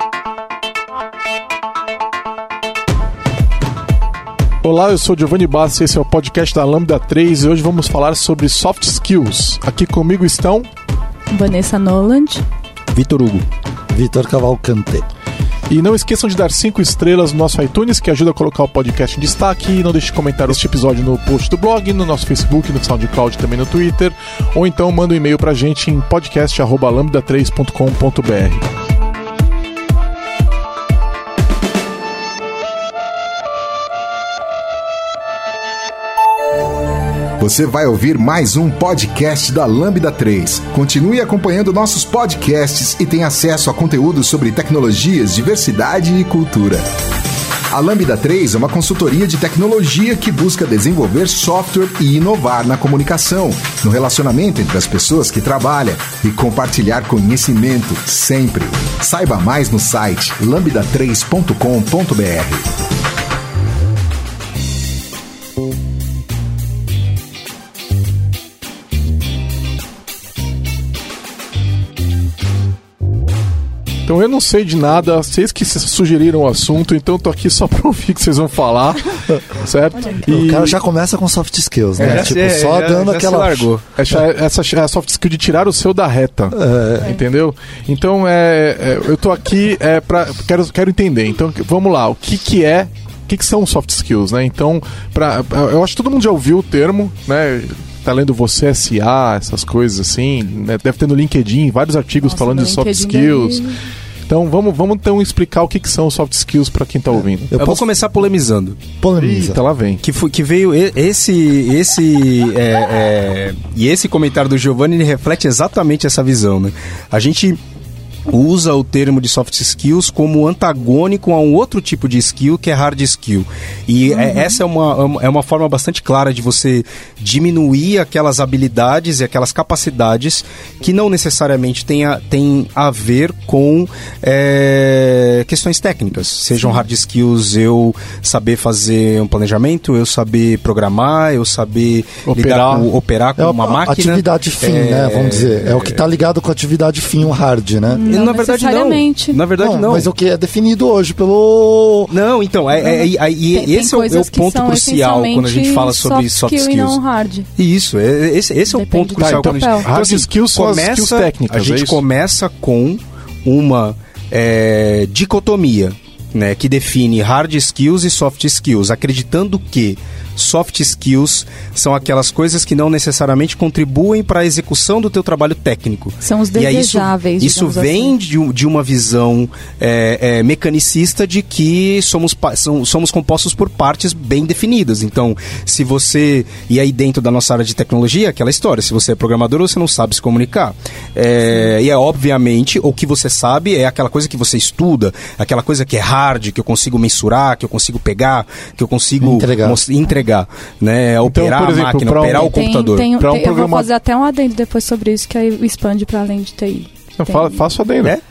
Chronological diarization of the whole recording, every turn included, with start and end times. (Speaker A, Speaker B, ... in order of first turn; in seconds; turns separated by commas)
Speaker A: 4.6-10.7, Speaker B: 11.3-12.4, Speaker C: 12.9-13.4, Speaker D: 13.9-15.1, Speaker A: 15.7-28.6, Speaker E: 37.4-46.8, Speaker E: 47.7-62.7, Speaker A: 74.0-80.8, Speaker D: 80.2-83.7, Speaker C: 82.0-83.8, Speaker A: 82.0-82.3, Speaker A: 83.9-103.7, Speaker D: 86.5-87.1, Speaker B: 102.2-103.8, Speaker A: 104.3-107.5, Speaker D: 107.5-107.8, Speaker C: 107.5-108.8, Speaker D: 109.0-109.6, Speaker A: 109.2-110.0, Speaker C: 110.0-117.6, Speaker C: 118.3-146.0, Speaker B: 124.1-124.6, Speaker B: 136.6-136.8, Speaker A: 142.2-142.9, Speaker D: 143.4-148.0, Speaker B: 147.9-149.4, Speaker C: 148.0-150.1, Speaker D: 149.6-152.1, Speaker C: 152.1-157.0, Speaker B: 152.8-157.5, Speaker C: 157.6-203.1, Speaker B: 158.7-159.9, Speaker A: 159.2-162.0, Speaker B: 176.2-178.1, Speaker D: 199.2-199.8, Speaker A: 201.2-203.9, Speaker B: 202.4-207.6, Speaker A: 207.2-208.1